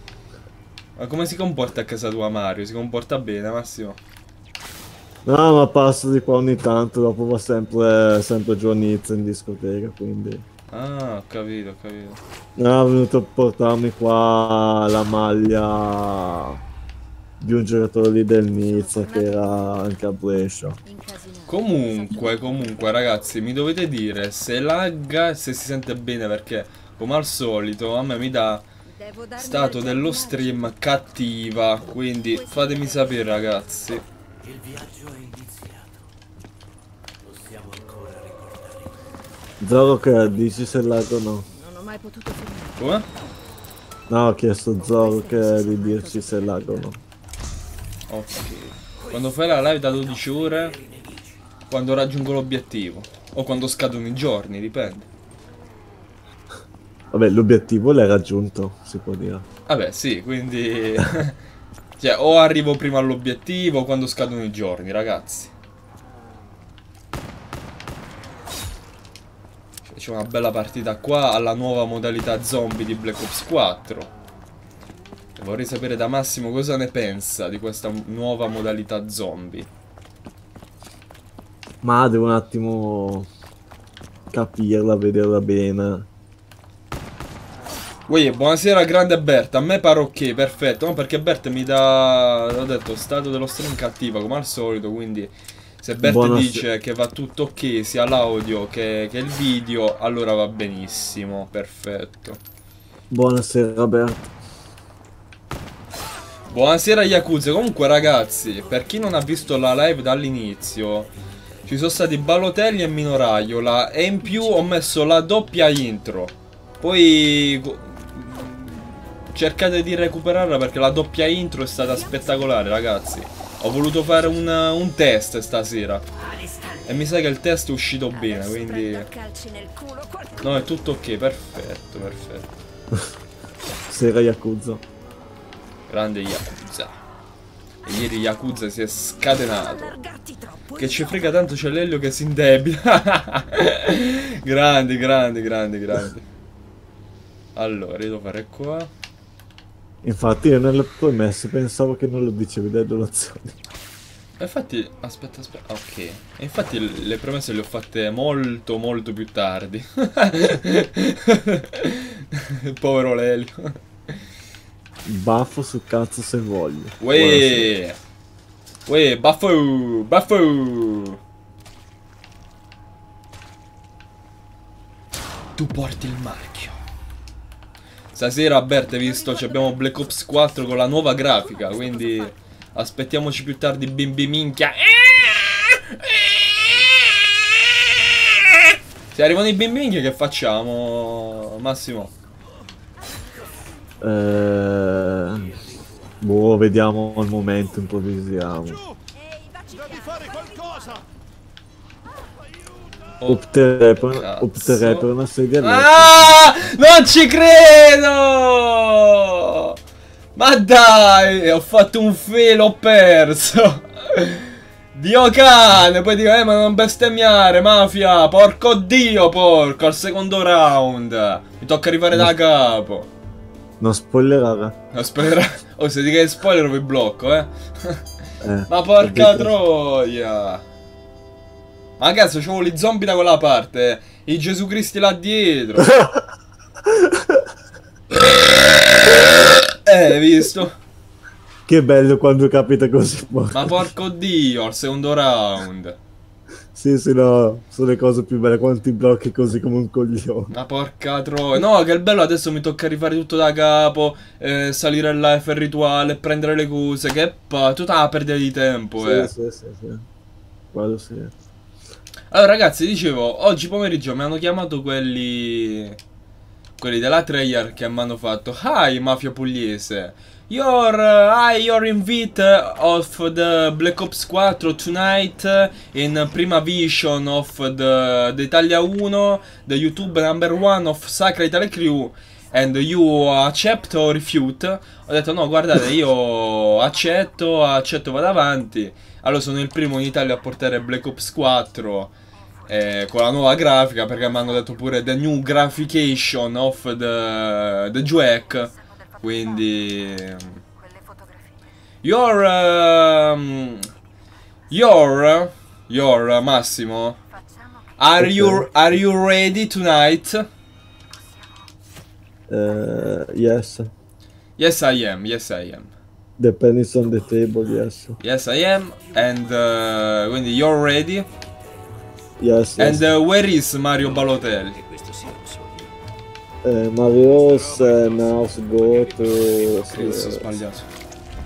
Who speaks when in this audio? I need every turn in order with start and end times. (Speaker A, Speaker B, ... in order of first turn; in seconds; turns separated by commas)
Speaker A: 1.0-4.0, Speaker B: 5.2-10.4, Speaker A: 10.7-12.2, Speaker B: 12.6-16.6, Speaker B: 17.4-20.8, Speaker C: 18.6-19.8, Speaker C: 20.8-23.2, Speaker A: 21.5-28.6, Speaker C: 28.9-30.9, Speaker A: 29.4-34.0, Speaker C: 32.3-34.0, Speaker D: 34.5-35.7, Speaker D: 37.3-38.8, Speaker B: 39.6-41.5, Speaker C: 41.5-43.0, Speaker A: 42.8-43.0, Speaker B: 44.1-47.0, Speaker C: 44.7-46.9, Speaker A: 48.1-50.8, Speaker D: 49.7-51.4, Speaker A: 51.7-55.1, Speaker B: 57.1-59.5, Speaker A: 59.7-61.4, Speaker A: 62.0-65.5, Speaker A: 69.9-74.1, Speaker A: 75.4-79.7, Speaker B: 81.8-83.3, Speaker B: 84.3-86.1, Speaker A: 88.1-102.4, Speaker B: 96.0-96.6, Speaker B: 103.1-104.2, Speaker A: 106.5-111.1, Speaker A: 111.7-126.0, Speaker C: 121.9-122.4, Speaker A: 126.8-129.1, Speaker C: 128.1-130.7, Speaker A: 130.4-132.5, Speaker B: 133.9-134.8, Speaker A: 135.9-136.9, Speaker A: 137.8-140.0, Speaker C: 139.5-141.4, Speaker A: 140.8-146.2, Speaker A: 147.5-148.9, Speaker B: 150.0-153.6, Speaker A: 154.4-164.2, Speaker B: 165.1-167.7, Speaker A: 167.0-167.9, Speaker A: 168.9-171.2, Speaker A: 175.6-176.8, Speaker A: 178.1-187.5, Speaker C: 179.0-180.5, Speaker C: 181.1-182.3, Speaker A: 189.1-192.1, Speaker B: 194.0-195.5, Speaker D: 195.4-195.8, Speaker B: 196.2-198.8, Speaker C: 199.1-201.0, Speaker B: 203.3-206.4, Speaker A: 204.1-205.1, Speaker A: 205.6-209.8, Speaker A: 210.3-223.1, Speaker B: 223.8-224.8, Speaker A: 224.9-228.0, Speaker B: 228.4-229.5, Speaker A: 228.7-230.6, Speaker A: 232.0-235.9, Speaker B: 235.8-236.2, Speaker B: 236.9-237.4, Speaker A: 238.1-240.8, Speaker B: 241.7-243.9, Speaker A: 243.5-246.0, Speaker B: 246.7-250.5, Speaker A: 250.5-259.3, Speaker B: 259.0-260.1, Speaker B: 260.7-261.4, Speaker A: 262.3-266.0, Speaker A: 266.8-292.1, Speaker A: 292.7-298.7, Speaker C: 294.2-294.7, Speaker C: 298.7-299.9, Speaker A: 299.2-300.6, Speaker C: 300.7-301.6, Speaker A: 302.0-303.9, Speaker A: 304.7-307.2, Speaker C: 307.3-307.9, Speaker A: 308.0-310.5, Speaker B: 308.2-308.7, Speaker B: 312.5-313.9, Speaker A: 314.6-315.9, Speaker B: 316.4-318.2, Speaker A: 318.2-321.2, Speaker B: 322.4-323.1, Speaker A: 322.8-324.8, Speaker D: 323.9-325.9, Speaker B: 326.6-330.6, Speaker D: 327.3-330.4, Speaker A: 329.8-330.9